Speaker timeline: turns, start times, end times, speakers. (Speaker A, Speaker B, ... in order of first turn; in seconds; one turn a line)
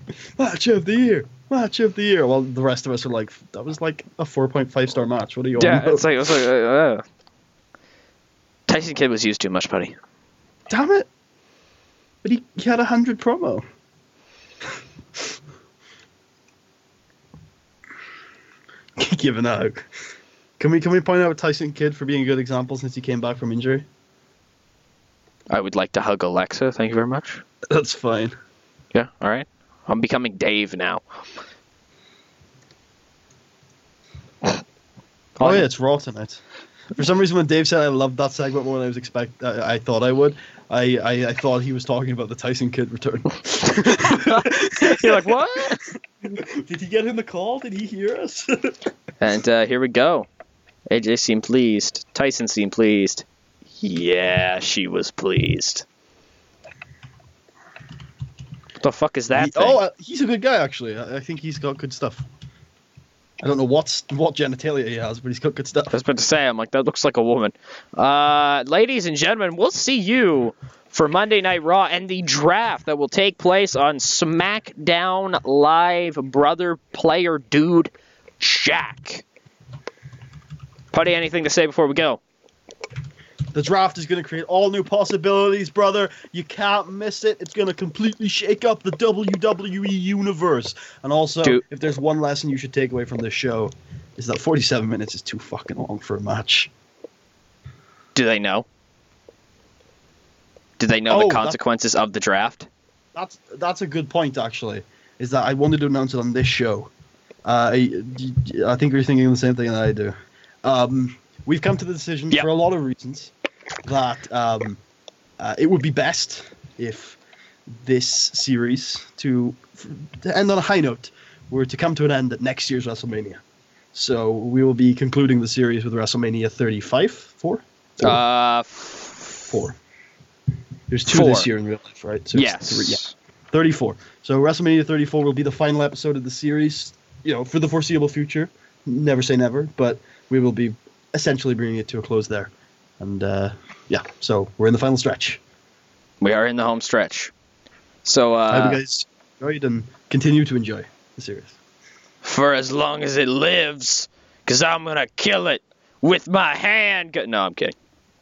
Speaker A: 0.4-6.4
Speaker B: 5.6-7.0
Speaker B: 8.7-9.9
Speaker A: 10.7-11.1
Speaker A: 12.2-13.6
Speaker A: 19.0-19.9
Speaker A: 20.6-23.9
Speaker B: 25.5-27.4
Speaker A: 27.7-28.3
Speaker B: 28.9-31.0
Speaker B: 35.4-35.7
Speaker A: 35.4-36.4
Speaker A: 37.0-45.7
Speaker B: 44.0-45.8
Speaker A: 46.3-48.8
Speaker B: 49.2-50.3
Speaker B: 50.9-53.2
Speaker B: 53.8-55.9
Speaker B: 58.8-59.8
Speaker A: 59.3-62.2
Speaker A: 63.4-65.9
Speaker B: 65.9-79.2
Speaker B: 80.9-82.2
Speaker A: 83.5-96.7
Speaker B: 98.2-98.7
Speaker B: 100.8-102.7
Speaker A: 101.1-101.6
Speaker A: 103.2-106.9
Speaker A: 107.5-113.3
Speaker A: 113.9-114.8
Speaker A: 115.4-117.2
Speaker A: 117.8-123.4
Speaker A: 123.9-128.2
Speaker B: 128.0-129.5
Speaker A: 129.5-129.8
Speaker A: 130.9-133.0
Speaker B: 131.1-131.5
Speaker B: 132.3-133.1
Speaker A: 133.5-145.4
Speaker B: 146.2-147.3
Speaker B: 148.1-148.8
Speaker A: 148.5-151.6
Speaker B: 152.2-157.7